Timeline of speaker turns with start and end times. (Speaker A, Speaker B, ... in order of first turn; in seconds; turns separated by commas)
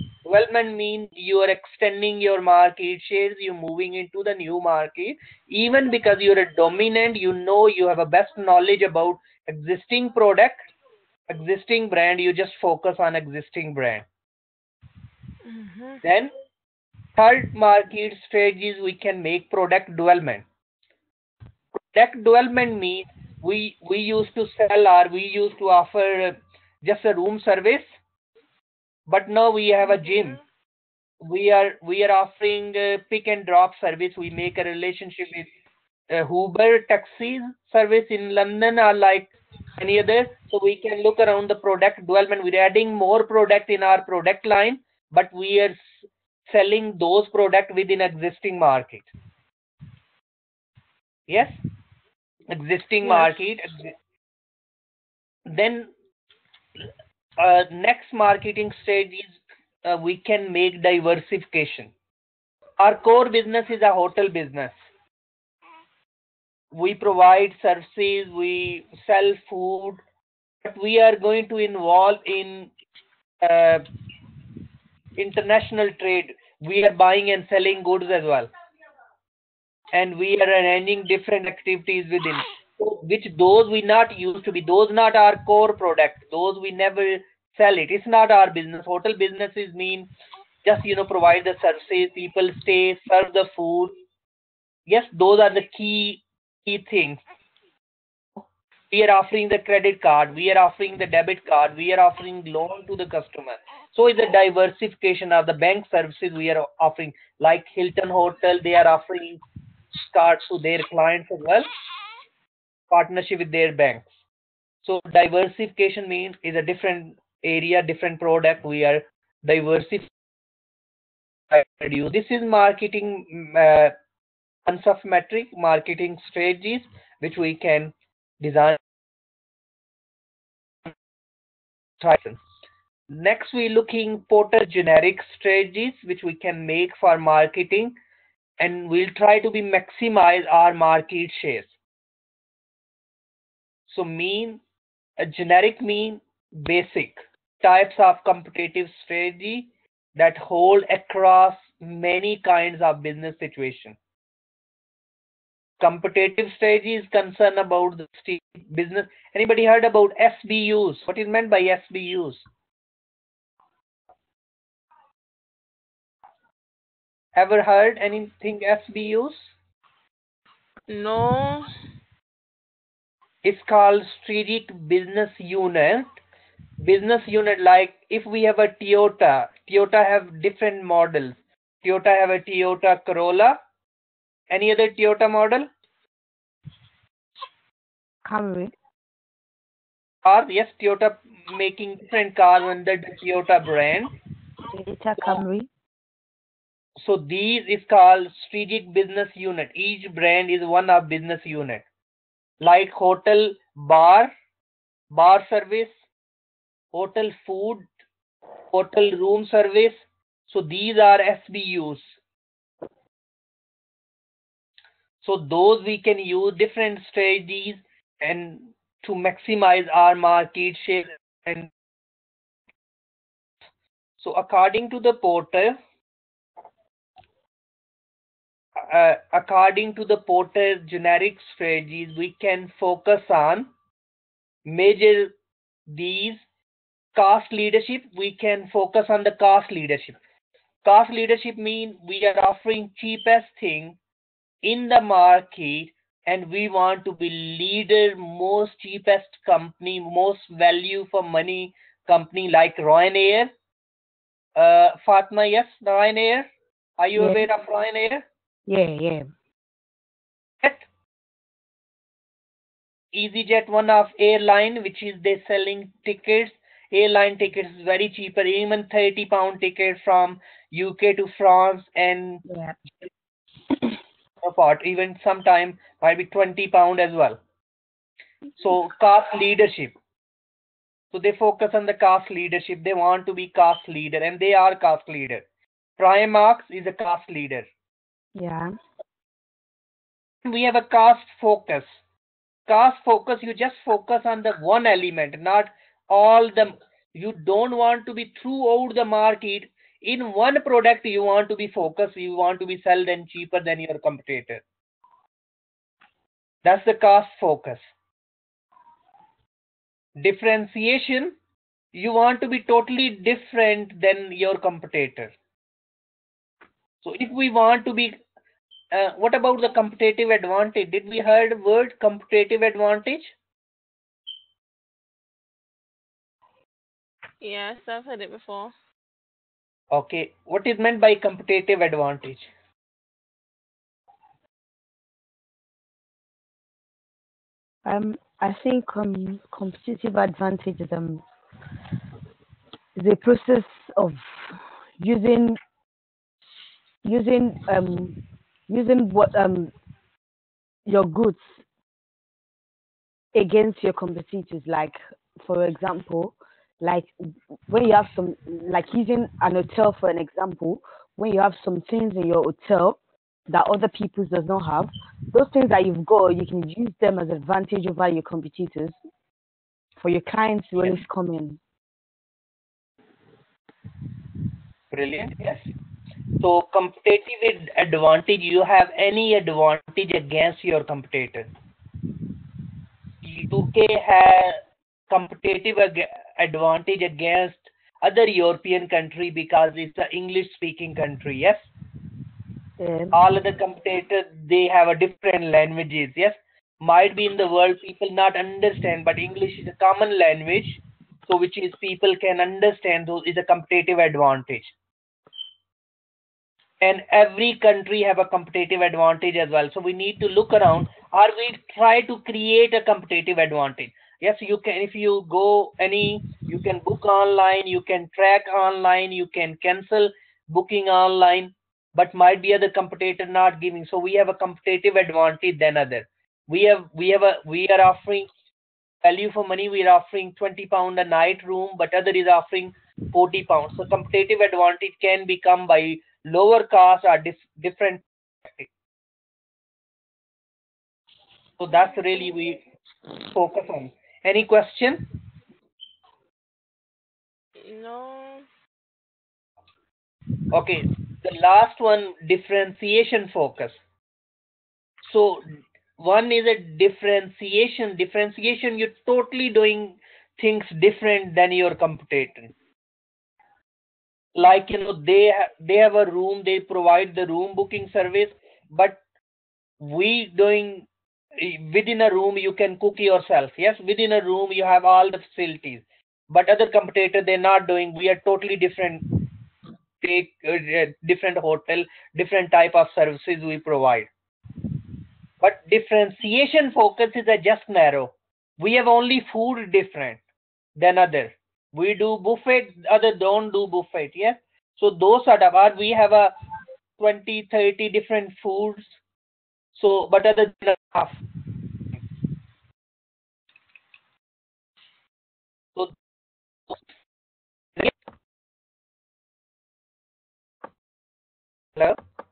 Speaker A: 0.2-10.7, Speaker A: 11.3-14.1, Speaker B: 15.4-16.0, Speaker A: 16.0-16.3, Speaker A: 17.2-20.5, Speaker A: 21.8-28.0, Speaker A: 29.1-30.4, Speaker B: 30.0-30.4, Speaker A: 31.2-35.5, Speaker A: 36.1-49.1, Speaker A: 51.3-51.6, Speaker A: 52.5-53.9, Speaker B: 53.0-53.3, Speaker A: 55.5-55.9, Speaker A: 57.4-61.9, Speaker A: 62.8-64.8, Speaker A: 66.7-70.0, Speaker A: 70.6-72.7, Speaker A: 73.4-73.9, Speaker A: 75.2-78.5, Speaker A: 79.9-90.1, Speaker A: 90.7-94.0, Speaker A: 94.9-97.2, Speaker A: 98.9-109.4, Speaker A: 110.0-111.7, Speaker A: 112.9-114.1, Speaker A: 114.8-120.1, Speaker A: 121.5-124.0, Speaker A: 124.7-128.8, Speaker A: 132.0-132.4, Speaker A: 133.1-138.0, Speaker A: 138.6-141.7, Speaker A: 143.9-144.6, Speaker A: 145.2-154.0, Speaker A: 155.8-162.5, Speaker A: 167.3-169.5, Speaker B: 170.9-171.7, Speaker A: 173.4-176.2, Speaker A: 176.8-183.6, Speaker A: 184.5-185.7, Speaker C: 188.2-188.8, Speaker A: 190.2-194.1, Speaker C: 194.7-195.7, Speaker A: 197.0-201.8, Speaker A: 202.6-204.3, Speaker A: 205.1-206.0, Speaker A: 206.9-207.9, Speaker A: 208.7-212.2, Speaker A: 215.2-221.7, Speaker A: 224.2-225.8, Speaker A: 228.8-233.7, Speaker A: 234.7-235.3, Speaker A: 235.9-236.4, Speaker A: 237.2-240.2, Speaker A: 240.8-244.0, Speaker A: 244.6-253.5, Speaker A: 254.6-258.2, Speaker C: 257.2-257.5, Speaker C: 258.7-259.3, Speaker A: 260.6-260.9, Speaker A: 263.1-272.4, Speaker C: 272.5-272.8, Speaker A: 274.4-277.4, Speaker A: 278.6-280.0, Speaker A: 281.1-285.4, Speaker A: 286.0-287.7, Speaker C: 288.4-288.7, Speaker A: 290.4-292.0, Speaker A: 292.7-304.6, Speaker A: 306.6-307.9, Speaker A: 310.2-311.4, Speaker A: 311.9-315.4, Speaker A: 317.0-318.2, Speaker A: 318.9-323.4, Speaker B: 327.4-328.7, Speaker A: 329.9-332.5, Speaker C: 337.9-341.2, Speaker C: 343.0-345.6, Speaker C: 347.0-348.2, Speaker C: 348.7-349.7, Speaker C: 350.9-351.6, Speaker C: 353.3-357.1, Speaker C: 357.7-369.0, Speaker C: 370.0-371.6, Speaker A: 370.8-371.0, Speaker A: 374.9-375.7, Speaker A: 376.4-381.5, Speaker A: 383.2-384.6, Speaker A: 385.1-391.7, Speaker C: 392.8-393.2, Speaker A: 393.1-404.7, Speaker A: 406.8-428.3, Speaker A: 429.0-438.7, Speaker A: 441.6-442.6, Speaker A: 443.2-445.1, Speaker B: 447.6-448.5, Speaker A: 450.5-453.8, Speaker A: 455.0-455.5, Speaker A: 456.0-462.5, Speaker A: 464.4-469.0, Speaker A: 469.8-479.1, Speaker A: 480.0-484.1, Speaker A: 485.4-490.2, Speaker A: 490.8-496.3, Speaker A: 497.0-499.0, Speaker A: 499.7-501.2